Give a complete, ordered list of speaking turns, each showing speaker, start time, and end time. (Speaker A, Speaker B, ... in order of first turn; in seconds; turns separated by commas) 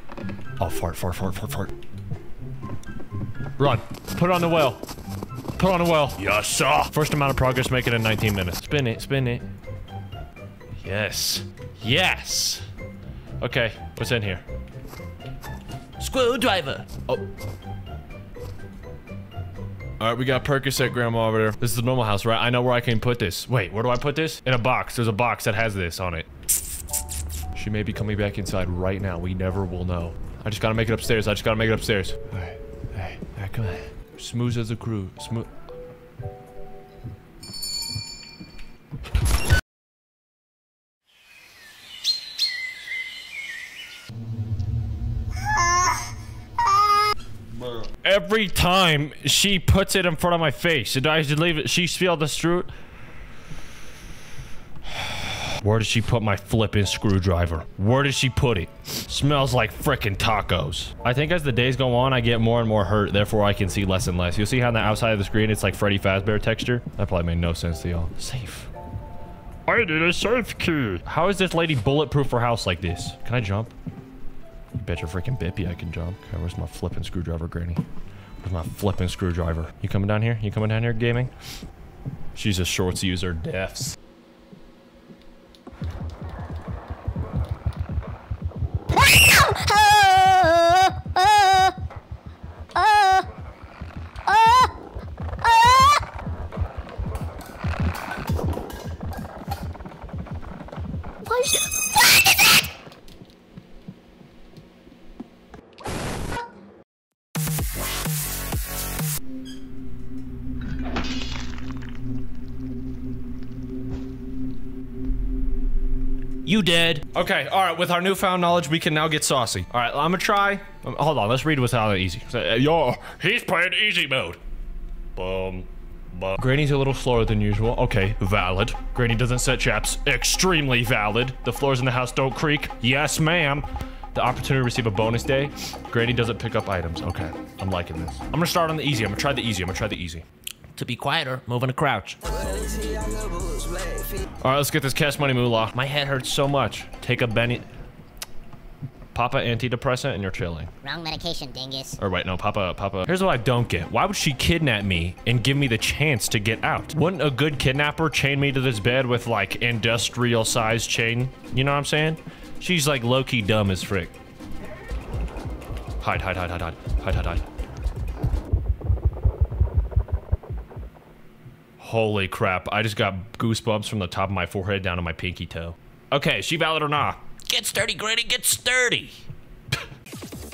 Speaker A: 0.6-1.7, Speaker A: 3.6-4.8, Speaker A: 5.6-9.4, Speaker A: 10.8-12.7, Speaker A: 13.4-14.4, Speaker B: 16.0-16.9, Speaker A: 20.0-26.3, Speaker A: 27.6-35.5, Speaker A: 48.0-52.7, Speaker A: 54.9-68.7, Speaker A: 69.7-73.7, Speaker A: 74.8-77.8, Speaker A: 78.4-81.3, Speaker A: 82.3-84.0, Speaker C: 89.0-91.7, Speaker C: 92.8-93.2, Speaker C: 94.3-94.7, Speaker C: 95.4-96.0, Speaker C: 101.3-102.2, Speaker A: 116.5-124.4, Speaker A: 125.1-140.2, Speaker B: 140.8-142.7, Speaker A: 144.4-147.6, Speaker A: 149.1-150.7, Speaker C: 150.8-152.0, Speaker A: 152.0-164.1, Speaker A: 166.0-167.4, Speaker A: 171.8-179.2